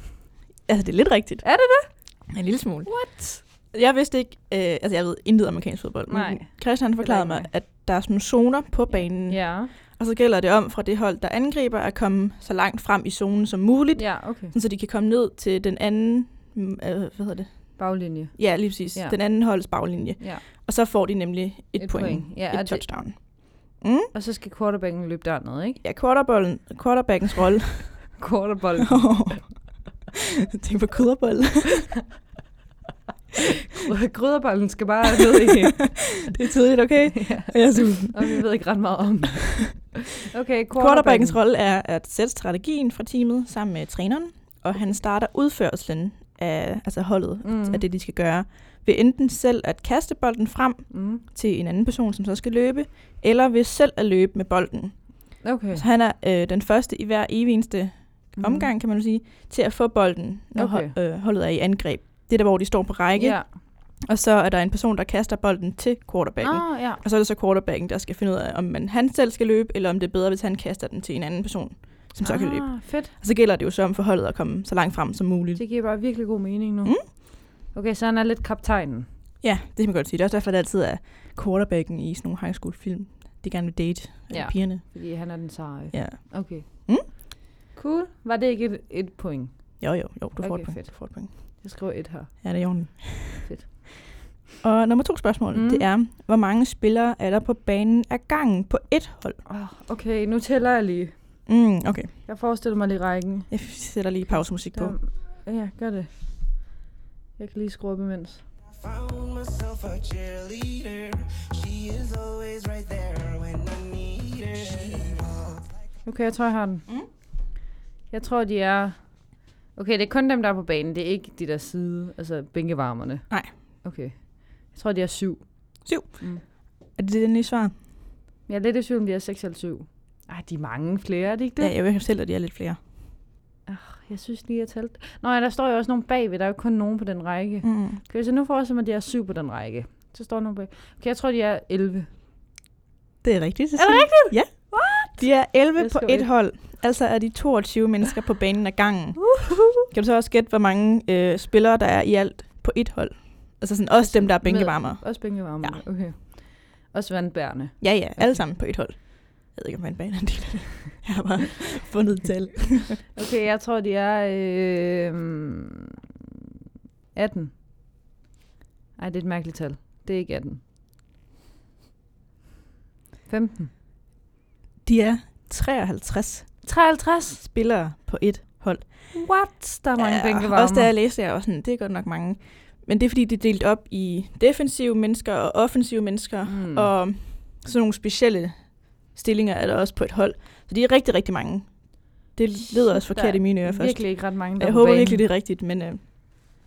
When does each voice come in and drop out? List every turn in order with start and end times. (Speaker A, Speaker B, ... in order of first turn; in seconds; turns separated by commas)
Speaker A: 0.7-24.1, Speaker B: 1.4-2.3, Speaker B: 2.8-3.4, Speaker B: 6.1-7.5, Speaker B: 8.9-9.7, Speaker B: 13.9-14.5, Speaker B: 17.8-20.4, Speaker B: 21.8-23.4, Speaker B: 24.1-25.8, Speaker A: 25.8-28.2, Speaker B: 28.2-29.5, Speaker A: 28.9-30.0, Speaker A: 30.5-32.0, Speaker B: 33.8-36.3, Speaker A: 36.2-38.4, Speaker B: 37.1-41.4, Speaker A: 40.7-75.6, Speaker B: 47.4-47.8, Speaker B: 50.9-51.2, Speaker B: 55.4-55.8, Speaker B: 58.4-58.7, Speaker B: 60.5-60.9, Speaker B: 63.1-63.5, Speaker B: 66.4-67.0, Speaker B: 72.2-73.1, Speaker B: 75.5-79.1, Speaker A: 79.4-87.1, Speaker B: 84.3-92.8, Speaker A: 89.8-91.6, Speaker A: 92.4-93.7, Speaker B: 93.4-94.3, Speaker A: 94.6-99.4, Speaker B: 95.5-95.8, Speaker B: 99.5-101.5, Speaker A: 101.5-102.1, Speaker B: 102.2-106.8, Speaker A: 103.5-105.0, Speaker B: 107.4-108.4, Speaker C: 108.7-115.8, Speaker B: 116.0-117.3, Speaker B: 118.1-126.4, Speaker A: 125.8-127.8, Speaker B: 128.5-131.7, Speaker A: 131.6-132.8, Speaker B: 133.7-142.1, Speaker A: 137.6-138.0, Speaker A: 143.2-155.8, Speaker B: 143.7-146.3, Speaker B: 149.4-149.8, Speaker B: 154.0-158.5, Speaker A: 157.8-163.1, Speaker B: 163.1-165.6, Speaker B: 167.1-167.6, Speaker B: 169.0-170.6, Speaker B: 173.3-173.7, Speaker A: 174.8-176.7, Speaker B: 176.6-177.4, Speaker A: 177.4-179.3, Speaker B: 179.1-180.9, Speaker A: 179.9-196.0, Speaker B: 186.4-186.9, Speaker B: 192.7-195.2